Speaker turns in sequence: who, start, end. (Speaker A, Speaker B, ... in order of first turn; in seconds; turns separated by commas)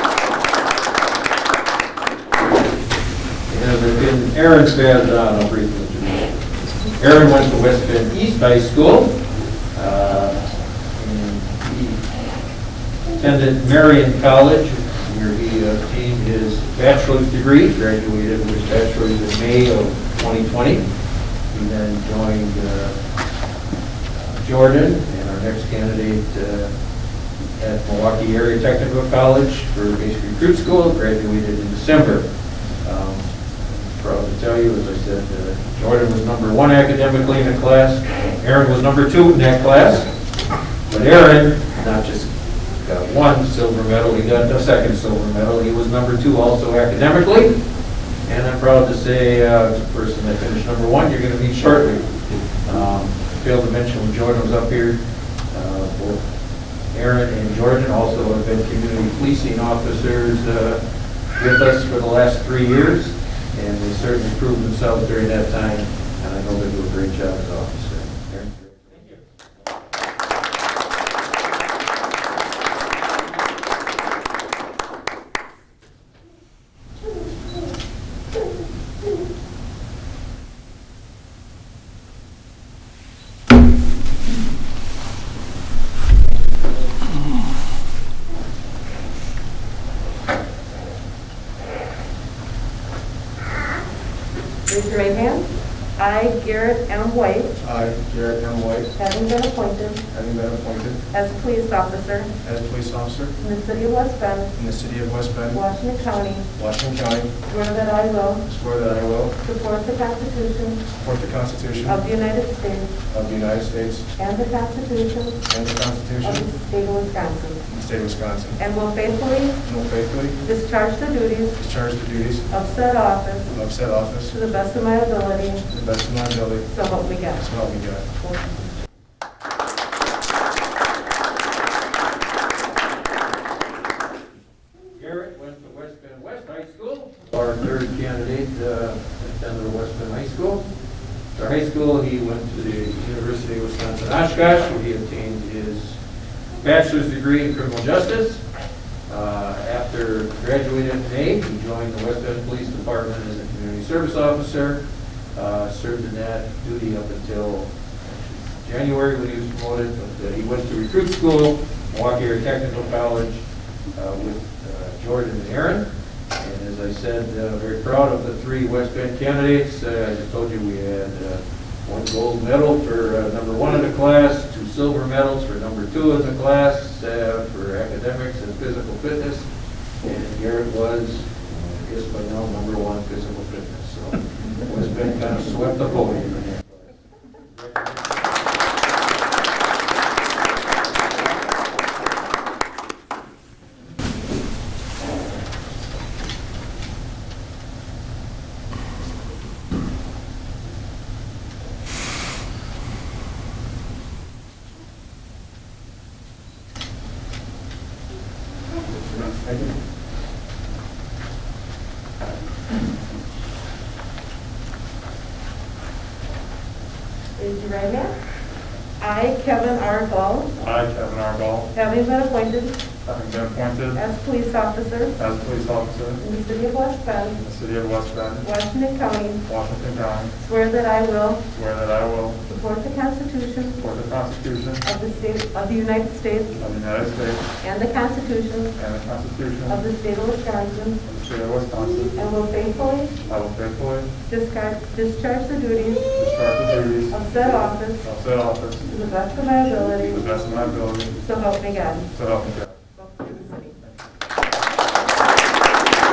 Speaker A: 3.5-6.4, Speaker A: 7.0-9.1, Speaker A: 9.7-10.4, Speaker A: 10.9-12.0, Speaker A: 13.2-20.9, Speaker A: 21.5-22.9, Speaker A: 24.1-26.7, Speaker A: 27.6-32.2, Speaker A: 32.8-40.1, Speaker A: 40.9-47.6, Speaker A: 48.2-55.0, Speaker A: 55.5-56.2, Speaker A: 56.9-60.8, Speaker A: 61.4-69.1, Speaker B: 94.7-97.5, Speaker C: 97.6-98.9, Speaker B: 99.0-100.0, Speaker C: 100.1-101.0, Speaker B: 101.1-102.3, Speaker C: 102.4-103.3, Speaker B: 103.4-104.5, Speaker C: 104.5-105.6, Speaker B: 105.5-106.5, Speaker C: 106.5-107.3, Speaker B: 107.4-108.4, Speaker C: 108.5-109.3, Speaker B: 109.4-110.8, Speaker C: 110.9-112.0, Speaker B: 111.8-112.9, Speaker C: 113.1-114.0, Speaker B: 114.2-115.4, Speaker C: 115.5-116.4, Speaker B: 116.2-117.6, Speaker C: 117.7-118.6, Speaker B: 118.6-119.6, Speaker C: 119.6-120.4, Speaker B: 120.4-121.6, Speaker C: 121.6-122.5, Speaker B: 122.5-123.5, Speaker C: 123.5-124.3, Speaker B: 124.3-125.6, Speaker C: 125.7-126.7, Speaker B: 126.7-127.4, Speaker C: 127.4-128.0, Speaker A: 134.9-140.6, Speaker A: 141.3-146.0, Speaker A: 146.6-148.4, Speaker A: 149.1-154.8, Speaker A: 155.3-179.4, Speaker A: 180.0-186.9, Speaker C: 209.1-209.7, Speaker B: 217.4-218.1, Speaker B: 219.0-220.5, Speaker D: 220.6-221.7, Speaker B: 221.7-222.8, Speaker D: 223.0-224.0, Speaker B: 223.9-225.2, Speaker D: 225.2-226.2, Speaker B: 226.2-227.4, Speaker D: 227.3-228.4, Speaker B: 228.4-229.4, Speaker D: 229.4-230.3, Speaker B: 230.3-231.4, Speaker D: 231.5-232.4, Speaker B: 232.4-233.8, Speaker D: 233.8-234.8, Speaker B: 234.8-236.6, Speaker D: 236.6-237.4, Speaker B: 237.6-238.7, Speaker D: 238.8-239.8, Speaker B: 239.7-241.0, Speaker D: 241.0-242.1, Speaker B: 242.1-243.2, Speaker D: 243.2-244.1, Speaker B: 244.3-246.1, Speaker D: 246.1-247.2, Speaker B: 247.1-248.0, Speaker D: 248.0-248.9, Speaker B: 248.9-250.2, Speaker D: 250.0-251.2, Speaker B: 251.2-252.1, Speaker D: 252.1-252.7, Speaker B: 252.9-253.8